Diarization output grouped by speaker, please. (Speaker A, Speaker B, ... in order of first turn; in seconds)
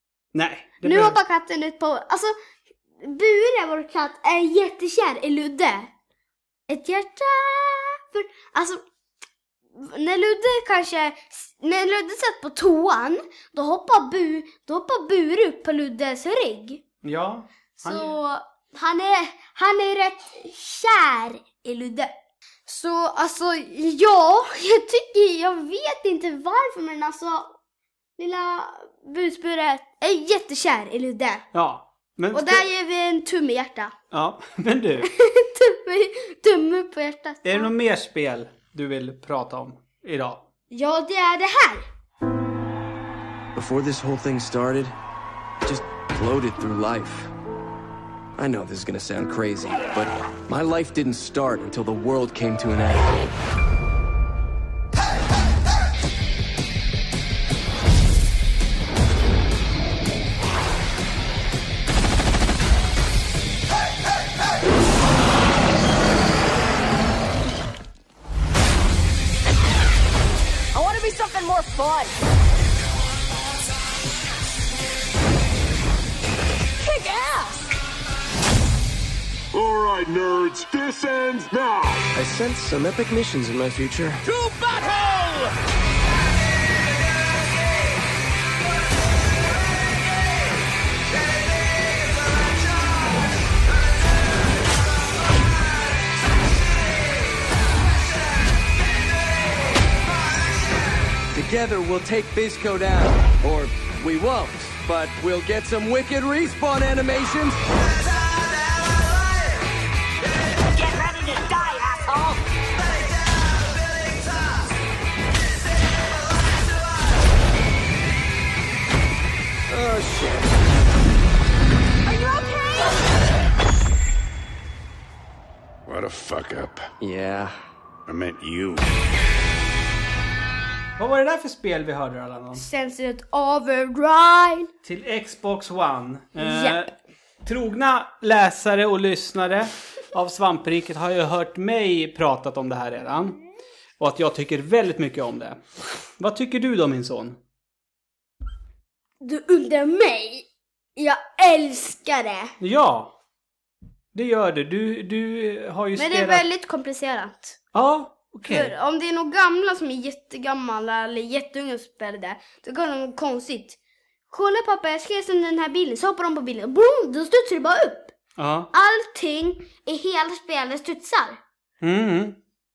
Speaker A: 0.3-1.2, 17.0-18.1, 31.5-32.6, 34.1-35.1, 37.4-40.5, 131.0-132.6, 134.8-136.9, 137.4-143.4, 144.0-145.6, 146.2-147.4, 152.6-153.2, 154.1-156.4, 157.7-158.7, 168.4-168.7, 171.8-172.4
Speaker B: 0.8-2.3, 3.0-5.9, 6.7-8.8, 9.7-16.8, 17.8-22.1, 22.6-27.5, 28.2-31.5, 32.3-33.9, 35.0-37.7, 40.7-41.8, 132.6-134.7, 136.4-136.8, 149.2-152.5, 155.9-157.6, 158.4-163.8, 164.3-168.1, 168.7-171.4
Speaker C: 43.5-44.9, 45.6-47.3, 48.4-53.1, 82.1-84.2, 101.3-107.6, 119.7-120.4, 127.0-127.5
Speaker D: 70.7-72.1, 76.8-77.7, 110.6-112.4, 122.0-123.0
Speaker E: 79.5-82.0, 84.4-84.8, 125.9-126.9, 128.1-128.8